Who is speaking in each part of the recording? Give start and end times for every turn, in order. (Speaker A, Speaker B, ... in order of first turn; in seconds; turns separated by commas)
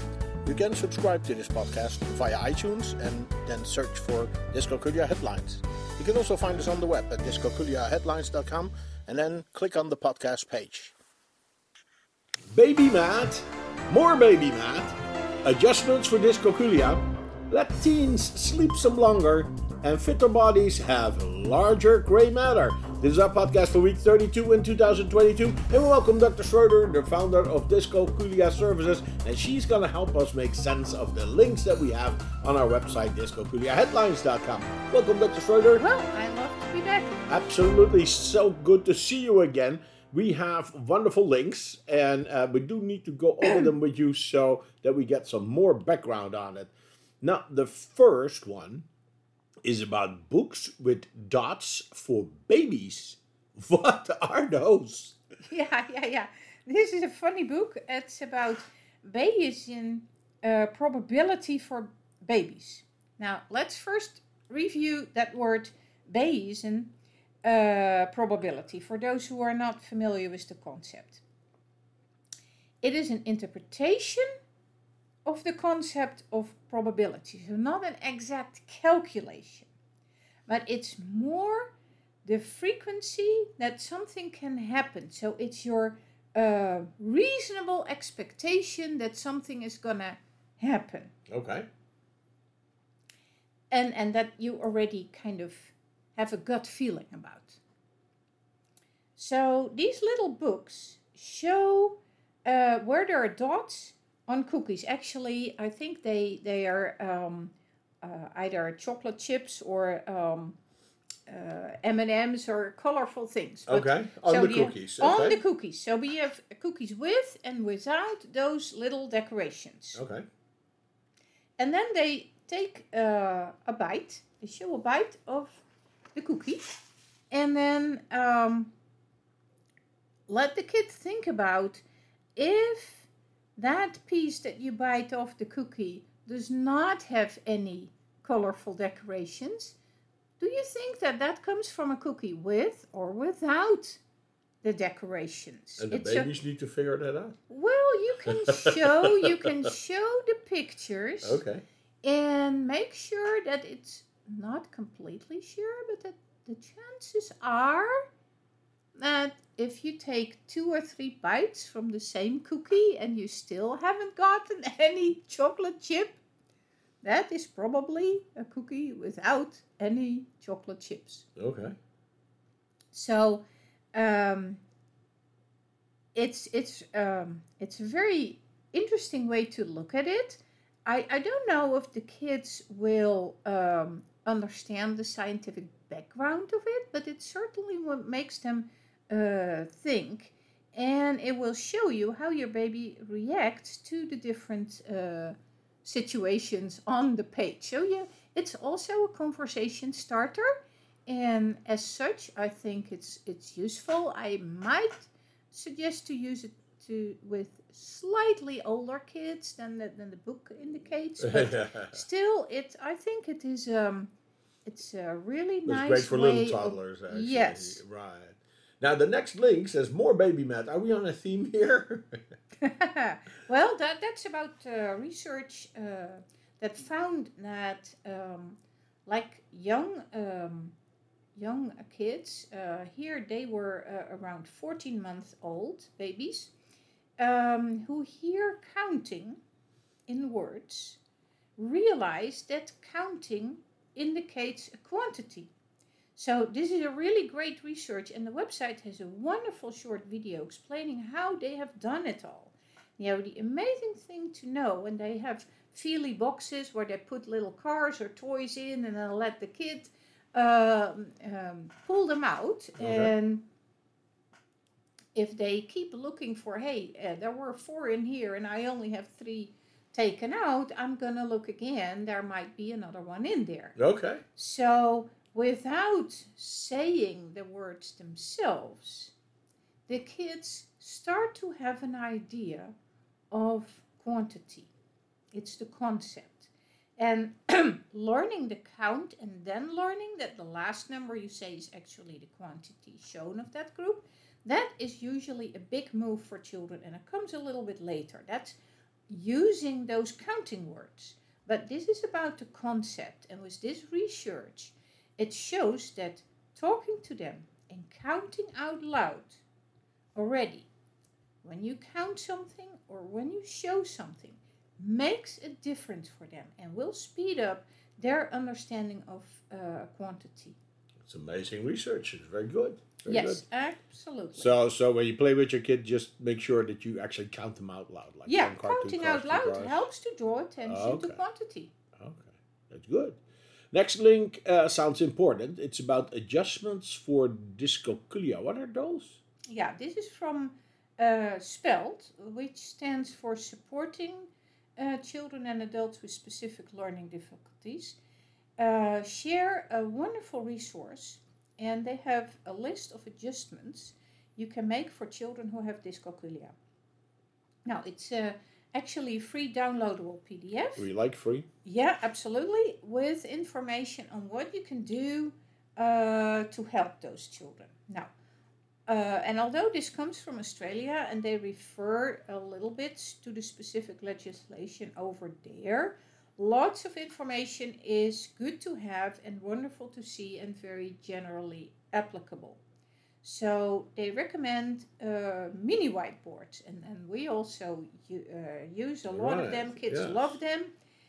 Speaker A: 0.4-10.9, Speaker A: 12.5-35.9, Speaker B: 35.8-37.3, Speaker A: 37.3-48.9, Speaker B: 43.4-43.7, Speaker A: 49.6-55.2, Speaker B: 55.5-66.9, Speaker B: 67.4-71.2, Speaker B: 72.8-74.3, Speaker B: 75.2-79.7, Speaker B: 80.5-81.7, Speaker B: 82.2-91.1, Speaker A: 91.3-91.7, Speaker B: 93.7-97.6, Speaker B: 99.2-110.6, Speaker B: 111.3-120.0, Speaker A: 113.7-115.4, Speaker A: 120.0-120.2, Speaker B: 121.6-128.7, Speaker B: 130.3-131.8, Speaker B: 132.4-139.8, Speaker B: 140.4-144.0, Speaker B: 144.6-146.3, Speaker A: 145.8-147.4, Speaker B: 147.5-151.4, Speaker A: 148.3-149.3, Speaker A: 151.2-151.6, Speaker B: 152.0-158.0, Speaker B: 159.0-166.2, Speaker B: 167.0-171.2, Speaker A: 171.4-171.8, Speaker B: 172.9-174.6, Speaker B: 176.1-200.5, Speaker B: 201.1-214.1, Speaker A: 211.2-212.0, Speaker B: 214.7-217.8, Speaker A: 215.7-222.2, Speaker B: 222.6-230.8, Speaker B: 231.3-236.5, Speaker B: 237.2-239.4, Speaker B: 240.1-241.0, Speaker B: 241.6-245.5, Speaker B: 246.2-263.4, Speaker A: 262.8-263.1, Speaker B: 265.1-273.8, Speaker A: 273.8-274.2, Speaker B: 274.4-279.1, Speaker B: 279.9-282.7, Speaker B: 283.3-284.7, Speaker B: 285.3-298.6, Speaker B: 299.1-309.4, Speaker B: 310.1-310.7, Speaker B: 311.4-320.6, Speaker A: 321.0-323.4, Speaker B: 323.1-324.5, Speaker A: 324.4-329.9, Speaker B: 328.2-331.7, Speaker A: 330.7-331.2, Speaker A: 332.0-333.2, Speaker A: 333.7-339.2, Speaker B: 339.5-348.0, Speaker B: 348.6-356.5, Speaker B: 357.7-360.9, Speaker A: 360.8-361.5, Speaker B: 361.6-368.1, Speaker B: 368.9-382.6, Speaker B: 383.2-390.7, Speaker A: 389.1-390.4